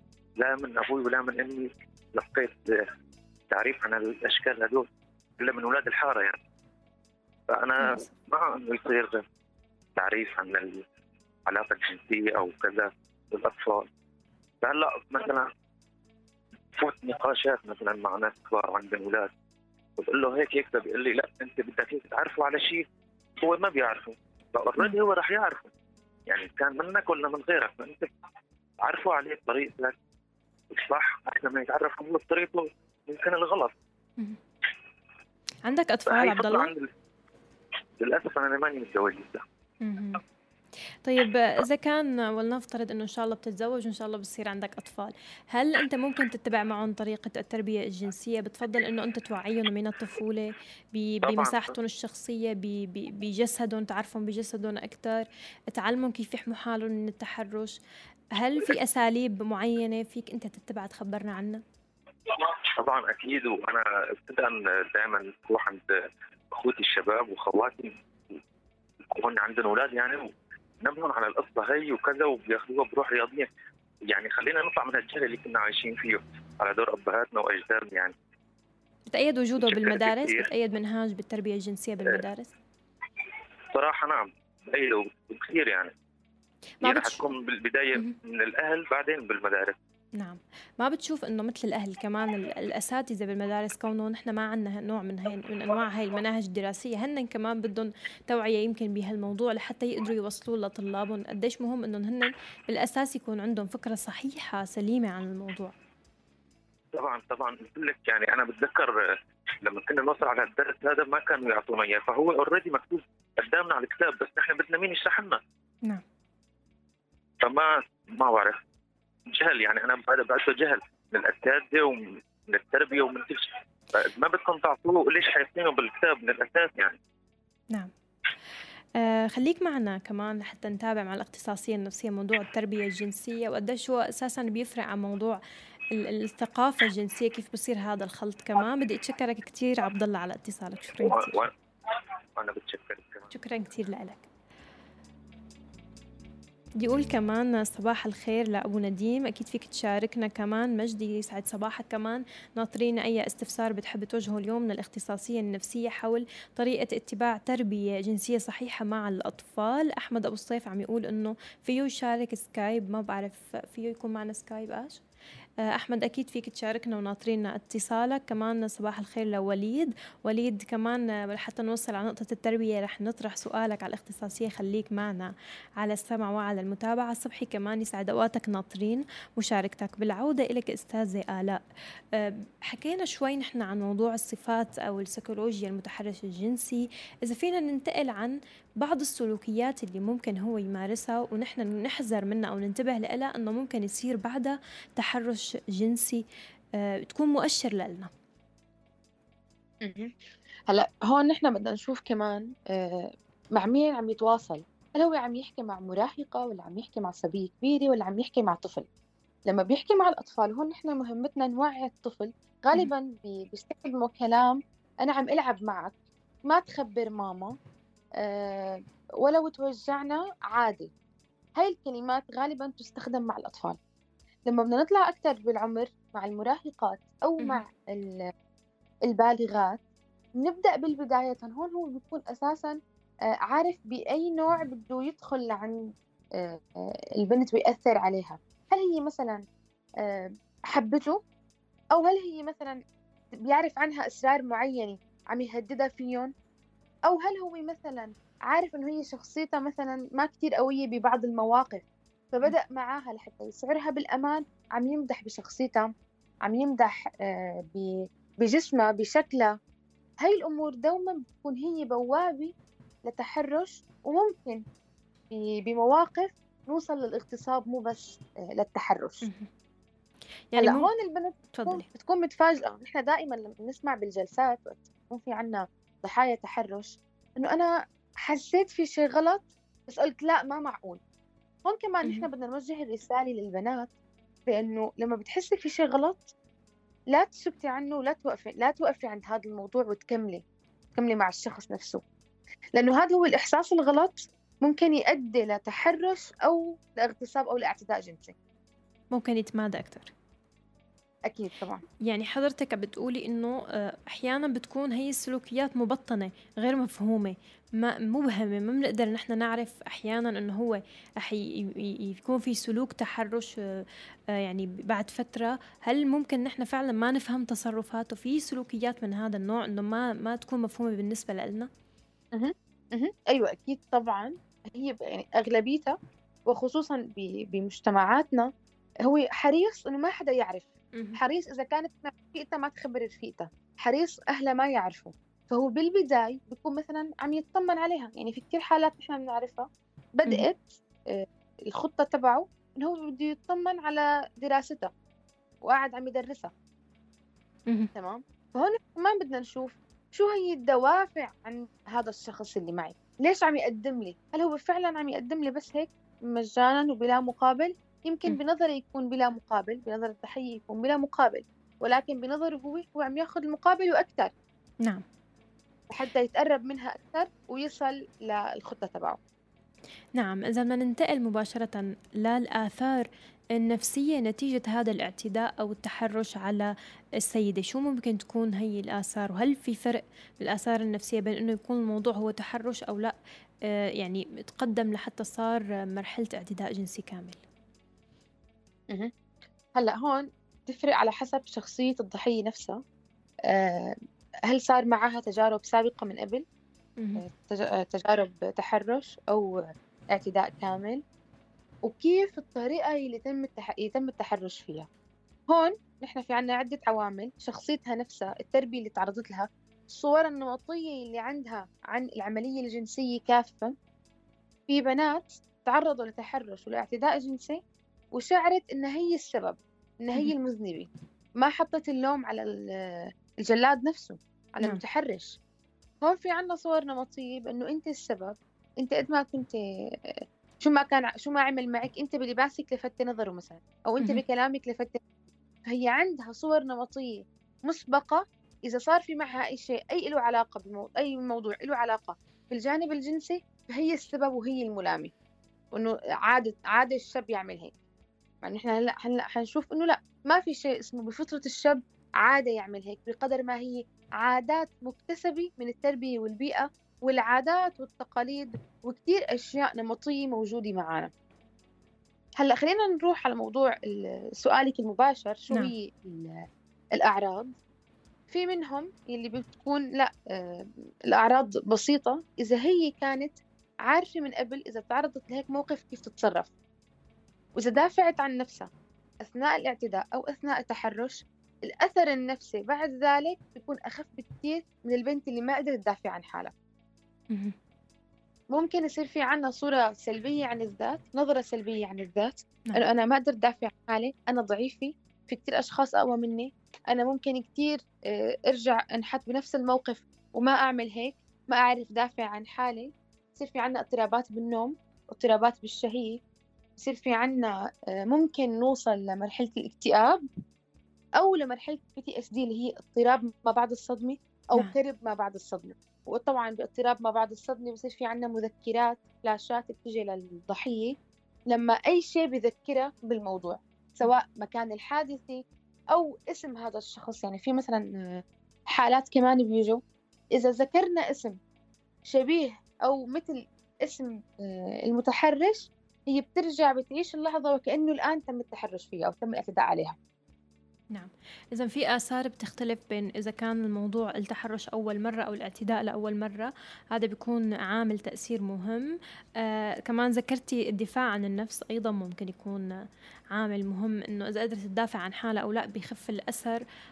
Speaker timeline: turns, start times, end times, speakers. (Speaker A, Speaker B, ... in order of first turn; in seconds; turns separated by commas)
Speaker A: 0.4-2.6, Speaker A: 3.5-4.9, Speaker A: 5.4-6.4, Speaker A: 7.5-9.2, Speaker B: 7.8-8.1, Speaker A: 10.0-10.8, Speaker A: 11.5-13.9, Speaker A: 14.6-15.5, Speaker A: 16.8-19.3, Speaker A: 20.0-22.9, Speaker A: 23.4-25.7, Speaker A: 26.3-28.1, Speaker A: 28.9-29.9, Speaker A: 30.7-33.7, Speaker B: 35.7-36.7, Speaker A: 36.1-36.9, Speaker A: 38.0-39.4, Speaker B: 39.8-40.2, Speaker B: 41.0-57.8, Speaker A: 51.2-51.8, Speaker B: 58.4-61.6, Speaker A: 62.3-65.9, Speaker A: 66.5-68.4, Speaker A: 69.1-73.5, Speaker A: 74.1-78.2, Speaker B: 79.1-82.5, Speaker A: 79.6-80.5, Speaker A: 83.8-85.9, Speaker B: 86.8-87.3, Speaker A: 86.8-89.8, Speaker B: 90.2-105.7, Speaker A: 106.9-109.0, Speaker A: 109.6-115.4, Speaker A: 117.4-118.6, Speaker A: 119.3-127.0, Speaker B: 129.0-135.4, Speaker B: 136.0-141.4, Speaker A: 141.0-141.5, Speaker A: 142.4-143.3, Speaker B: 143.3-144.2, Speaker B: 146.8-165.0, Speaker B: 165.7-181.6, Speaker B: 182.2-196.2, Speaker B: 196.8-198.1, Speaker C: 199.8-200.2, Speaker C: 200.7-208.9, Speaker C: 209.5-215.9, Speaker C: 216.5-217.6, Speaker C: 218.2-220.9, Speaker C: 221.6-223.8, Speaker C: 224.5-228.3, Speaker C: 229.1-229.8, Speaker C: 230.4-232.8, Speaker C: 233.5-239.4, Speaker C: 240.0-241.2, Speaker C: 241.9-242.8, Speaker C: 243.5-246.3, Speaker C: 247.1-259.6, Speaker C: 260.2-262.5, Speaker C: 263.1-264.6, Speaker C: 265.3-269.2, Speaker B: 269.2-269.5, Speaker B: 270.5-270.9, Speaker C: 270.6-277.7, Speaker B: 271.5-271.9, Speaker C: 278.2-281.0, Speaker C: 281.6-283.9, Speaker C: 284.5-286.3, Speaker C: 287.1-290.4, Speaker C: 291.0-292.0, Speaker C: 292.8-298.4, Speaker B: 299.1-300.1, Speaker C: 301.3-301.8, Speaker B: 302.1-321.7, Speaker C: 322.4-326.0, Speaker C: 326.5-328.5, Speaker C: 329.1-344.9, Speaker C: 345.6-346.5, Speaker C: 348.0-364.3, Speaker C: 365.9-369.2, Speaker B: 370.2-376.7, Speaker B: 377.2-383.1, Speaker B: 383.7-387.4, Speaker C: 389.8-392.8, Speaker C: 393.5-394.0, Speaker C: 394.5-396.4, Speaker C: 397.2-401.0, Speaker C: 401.9-404.9, Speaker C: 405.5-413.8, Speaker C: 414.7-417.6, Speaker C: 418.1-420.9, Speaker C: 421.4-425.4, Speaker C: 426.0-429.6, Speaker C: 430.1-435.0, Speaker C: 435.7-445.1, Speaker C: 445.7-447.7, Speaker C: 448.4-461.1, Speaker C: 462.4-466.4, Speaker C: 467.0-467.5, Speaker C: 468.3-476.5, Speaker C: 477.6-478.7, Speaker C: 479.2-486.5, Speaker C: 488.5-506.2, Speaker C: 506.8-510.2, Speaker C: 511.2-521.0, Speaker C: 521.5-529.8, Speaker C: 530.4-531.4, Speaker C: 532.1-540.0, Speaker B: 540.9-556.6